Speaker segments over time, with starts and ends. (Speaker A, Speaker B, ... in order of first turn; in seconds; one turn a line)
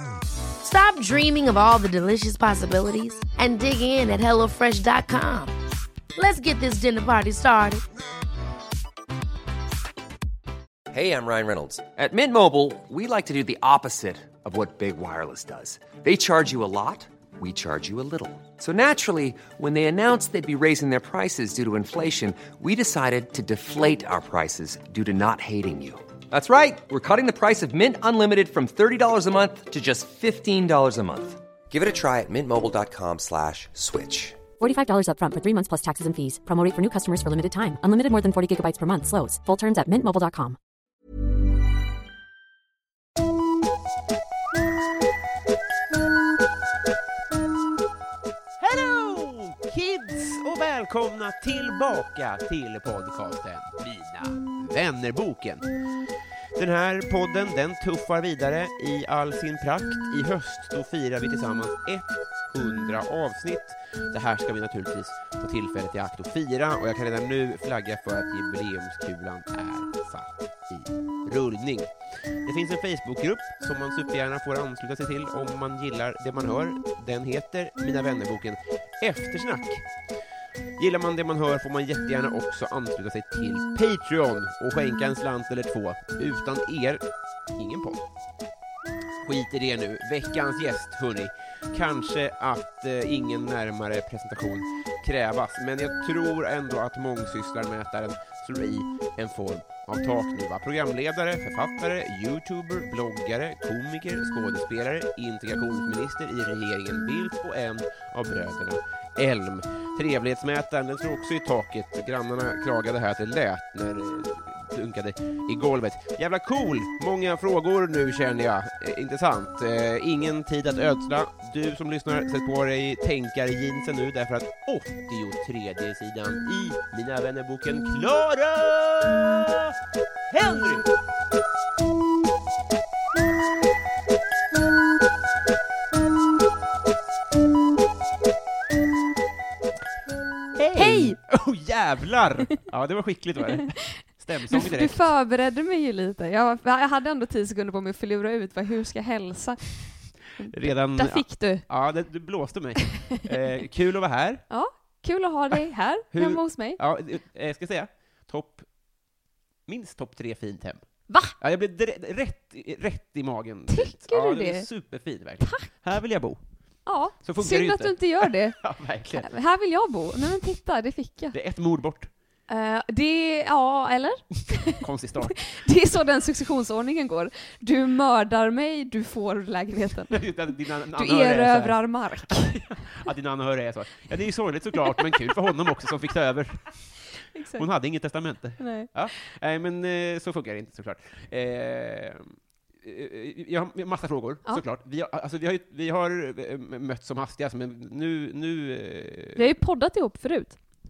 Speaker A: 0.6-5.5
Speaker A: 6.2-7.8
Speaker B: 10.9-34.4
Speaker C: 34.6-40.6
Speaker D: 48.6-55.7
Speaker D: 56.6-79.9
Speaker D: 80.8-88.1
Speaker D: 89.2-129.8
Speaker D: 130.3-130.9
Speaker D: 140.6-145.1
Speaker E: 140.8-141.2
Speaker E: 143.9-151.7
Speaker D: 150.5-154.4
Speaker E: 154.5-156.8
Speaker D: 156.1-158.7
Speaker D: 159.7-166.4
Speaker E: 161.1-161.3
Speaker E: 163.7-164.7
Speaker E: 165.4-165.7
Speaker E: 166.8-171.4
Speaker D: 167.2-169.3
Speaker D: 171.3-172.1
Speaker E: 172.5-183.0
Speaker D: 174.6-175.5
Speaker D: 180.1-199.5
Speaker E: 184.8-185.5
Speaker E: 187.3-187.7
Speaker E: 188.6-188.9
Speaker E: 199.3-200.6